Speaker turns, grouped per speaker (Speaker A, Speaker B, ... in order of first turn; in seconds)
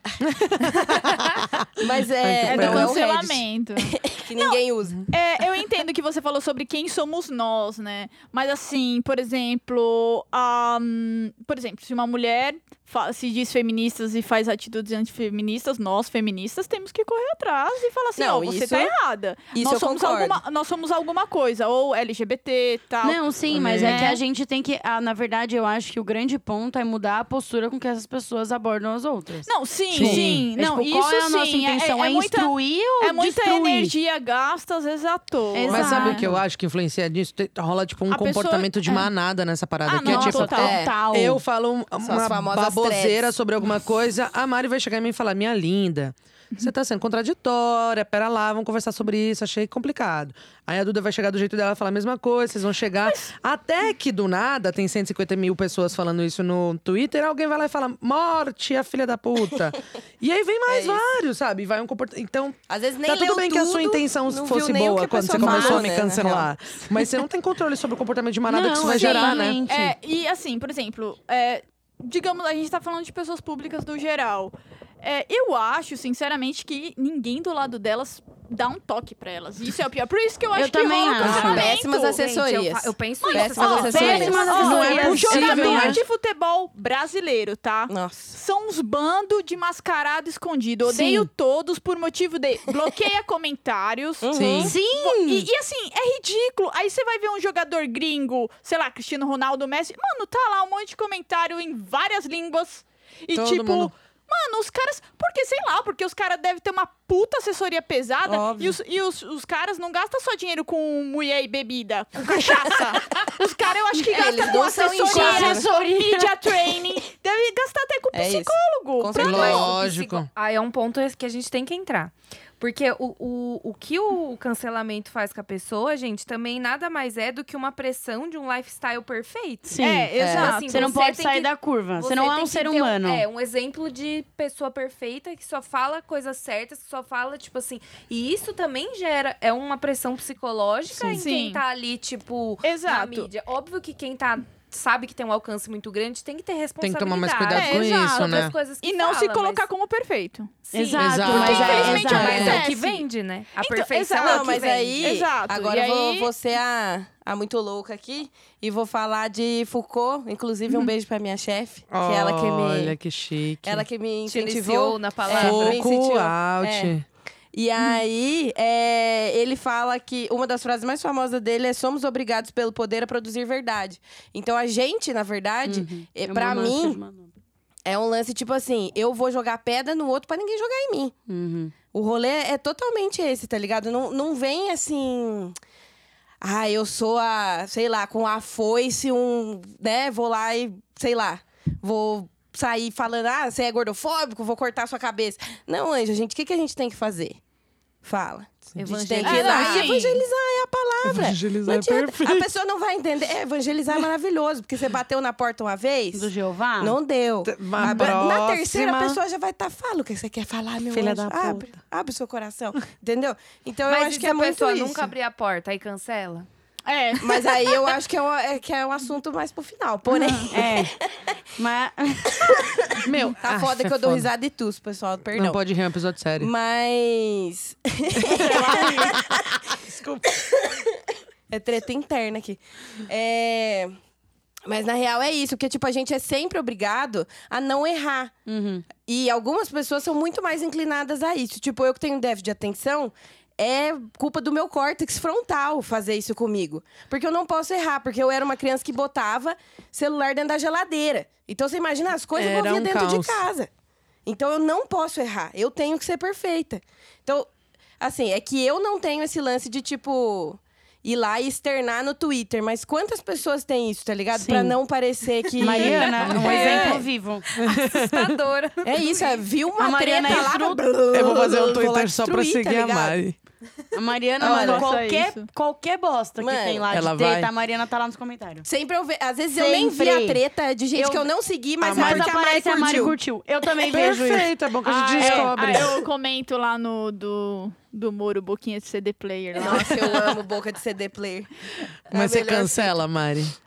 Speaker A: 0.2-3.0, 23.5-24.1, 29.9-30.5, 35.7-69.6, 84.5-86.0, 94.3-94.7, 103.3-103.9, 119.1-120.3, 146.8-148.5, 151.0-152.2, 161.9-163.8, 165.3-167.0, 201.0-202.5, 207.4-209.2, 210.9-211.8, 223.0-224.3, 225.3-226.5, 228.2-230.7, 252.3-253.4, 267.6-268.4, 271.1-273.4, 276.9-277.5, 281.8-282.3, 283.9-286.0, 292.1-293.5
Speaker B: 0.8-1.4, 81.3-85.1, 119.2-149.7, 150.7-155.2, 164.2-165.9, 198.8-199.9, 213.9-216.5, 265.7-267.1, 267.6-269.4
Speaker C: 1.8-5.1, 18.2-18.9, 19.5-20.4, 40.5-40.9, 42.0-43.3, 60.7-61.0, 62.7-66.5, 81.2-84.8, 87.9-88.4, 94.2-94.7, 108.2-108.8, 114.1-115.7, 118.1-119.8, 130.2-130.6, 152.1-152.7, 154.2-162.9, 163.6-166.9, 167.5-177.0, 177.8-181.1, 181.9-185.5, 186.4-197.4, 198.0-215.1, 217.2-221.3, 222.4-225.6, 226.4-229.7, 230.4-230.8, 231.5-233.9, 234.7-238.3, 239.0-253.7, 254.2-267.0, 268.8-273.2, 274.4-275.0, 276.4-276.9, 278.6-283.2, 289.6-291.5, 292.1-292.9
Speaker D: 2.4-4.6, 5.1-23.2, 23.8-24.2, 29.4-36.3, 38.1-39.1, 39.9-40.8, 68.8-82.2, 83.3-94.3, 94.9-119.7, 129.8-130.8, 141.1-141.6, 142.6-143.3, 147.5-150.6, 151.2-153.1, 153.6-156.3, 199.2-200.2, 207.8-208.1, 216.8-217.9, 220.1-220.5, 228.4-229.1, 274.4-275.4, 284.8-290.2
Speaker E: 23.0-33.9, 35.5-36.4, 40.0-41.4, 65.3-65.9, 68.5-69.9, 80.5-81.7, 83.6-86.0, 90.8-91.3, 94.6-95.5, 115.0-116.4, 129.7-133.2, 150.7-152.6, 175.7-177.3, 181.3-181.7, 206.1-207.0, 220.5-220.9, 221.6-222.6, 238.5-238.8, 264.3-264.8, 265.6-267.4, 269.8-270.8, 273.9-278.6, 279.5-280.4, 280.9-281.3, 281.9-284.5, 285.2-285.8